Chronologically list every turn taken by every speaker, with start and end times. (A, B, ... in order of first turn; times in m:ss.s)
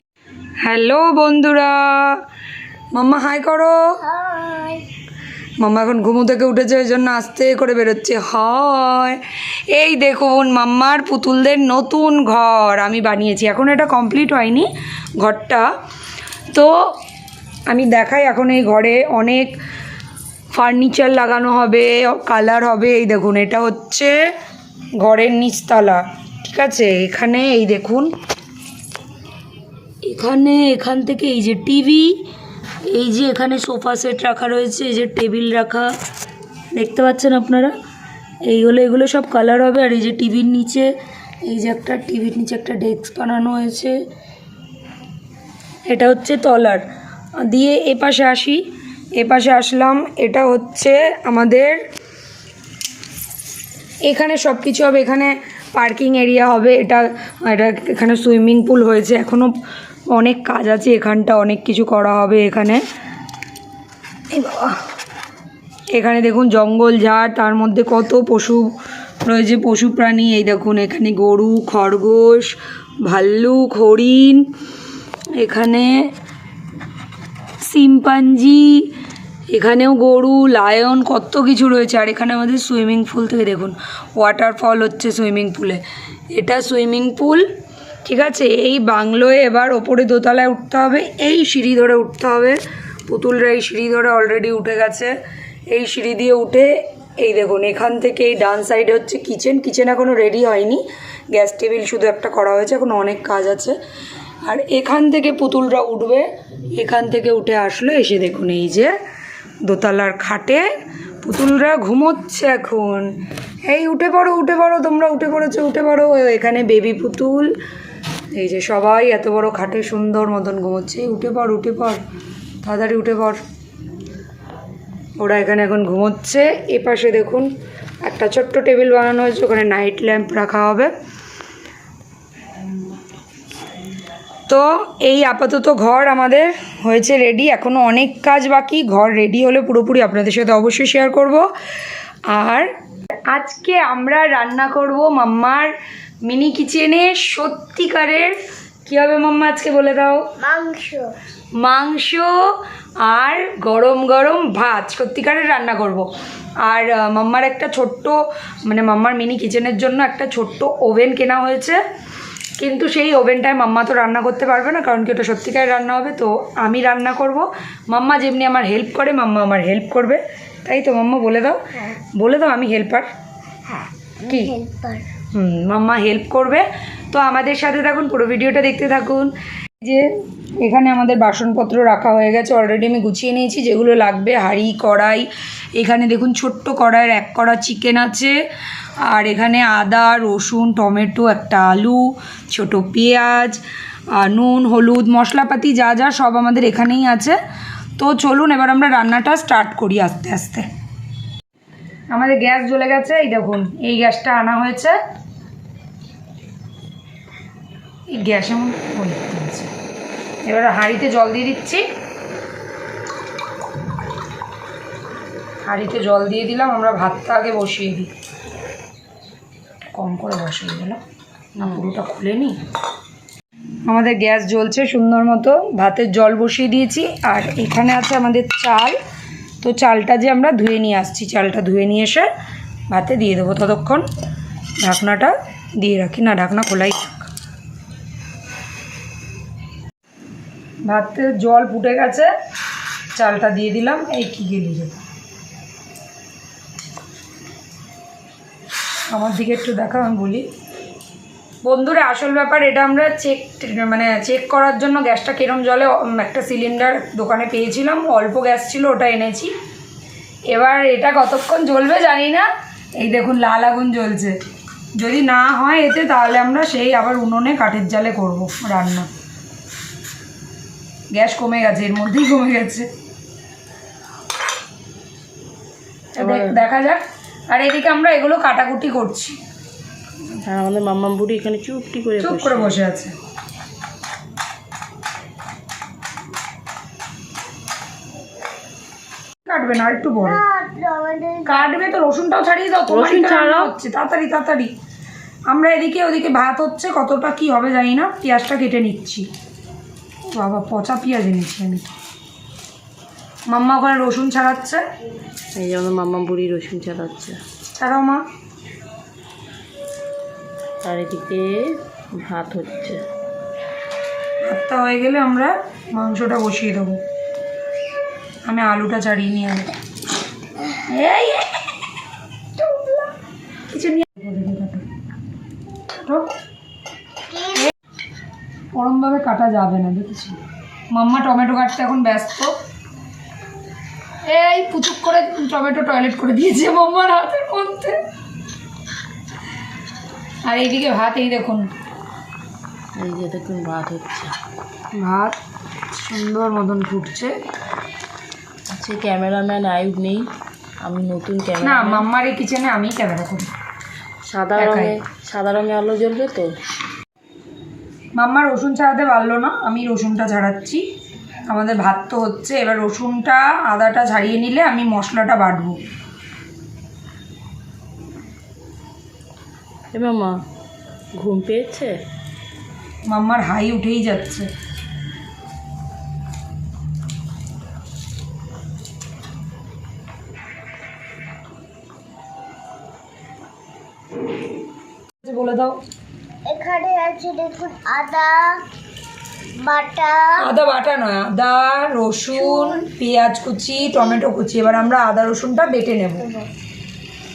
0:00.6-0:02.2 A
0:02.9-0:03.9 A
0:04.0-0:04.8 B
0:05.6-0:14.7 A
0:15.2-0:15.7 A
0:16.5-0:17.0 A
0:17.7-0:19.5 A
0:20.5-0:24.3 A
0:25.0-0:28.1 A
0:30.0-0:32.2 A
0:32.8-0:35.9 A
0:36.7-0:37.7 A
0:38.4-0:40.9 A
0:41.5-0:44.0 A
0:45.9-0:46.8 A
0:47.4-0:48.6 A
0:49.2-0:51.8 A
0:54.0-0:59.5 A
1:00.1-1:02.8 A
1:04.3-1:04.8 A
1:05.9-1:08.7 A
1:09.2-1:14.5 A
1:15.4-1:16.1 A
1:17.6-1:18.9 A
1:19.5-1:25.8 A
1:26.3-1:27.5 A
1:28.0-1:35.1 A
1:35.7-1:43.8 A
1:44.4-1:48.9 A
1:49.6-1:50.7 A
1:51.2-1:57.6 A
1:58.3-2:02.0 A
2:02.6-2:03.4 A
2:05.2-2:07.5 A
2:08.0-2:10.9 A
2:14.5-2:21.5 A
2:22.3-2:22.7 A
2:23.3-2:25.7 A
2:26.2-2:30.2 A
2:30.4-2:31.1 B
2:31.6-2:36.1 A
2:36.6-2:41.8 A
2:42.6-2:51.6 A
2:52.2-2:53.1 A
2:54.2-2:55.1 B
2:54.3-2:54.5 A
2:55.3-3:08.4 A
3:09.0-3:17.4 A
3:18.0-3:20.7 A
3:22.1-3:25.0 A
3:28.1-3:29.7 A
3:30.5-3:31.8 A
3:35.6-3:38.1 A
3:40.0-3:41.0 A
3:41.6-3:42.6 A
3:41.6-3:42.0 C
3:43.8-3:49.0 A
3:49.6-3:52.3 A
3:52.9-3:54.1 A
3:54.8-3:57.3 A
4:00.9-4:02.3 A
4:03.2-4:05.0 A
4:09.1-4:10.5 A
4:11.6-4:19.5 A
4:20.5-4:22.5 A
4:23.0-4:24.4 A
4:25.0-4:29.1 A
4:31.1-4:32.9 A
4:36.2-4:39.4 A
4:36.2-4:36.6 C
4:40.4-4:42.8 C
4:42.2-4:43.1 A
4:49.4-4:50.4 A
4:50.2-4:51.9 B
4:51.4-4:54.7 A
4:52.9-4:53.7 C
4:55.5-4:59.3 A
5:00.3-5:01.9 A
5:03.5-5:04.8 A
5:05.5-5:07.4 C
5:07.8-5:08.2 A
5:10.8-5:13.0 C
5:14.5-5:17.0 A
5:18.4-5:19.7 A
5:20.9-5:21.6 A
5:22.6-5:23.1 A
5:23.7-5:24.9 A
5:26.0-5:26.3 A
5:27.3-5:27.7 B
5:28.8-5:30.4 A
5:30.9-5:32.6 A
5:34.3-5:38.0 A
5:40.4-5:41.7 A
5:43.0-5:44.4 C
5:45.0-5:45.4 A
5:45.9-5:47.4 A
5:48.7-5:50.3 C
5:50.8-5:52.1 C
5:51.6-5:53.5 A
5:54.2-5:56.5 C
5:54.6-5:54.9 A
5:58.2-6:00.8 A
6:01.5-6:05.8 A
6:09.9-6:10.4 C
6:11.2-6:12.0 C
6:13.1-6:14.5 A
6:25.2-6:25.8 A
6:26.4-6:28.6 B
6:29.6-6:30.4 B
6:30.4-6:36.3 A
6:32.4-6:32.8 B
6:33.8-6:34.7 B
6:36.2-6:36.5 B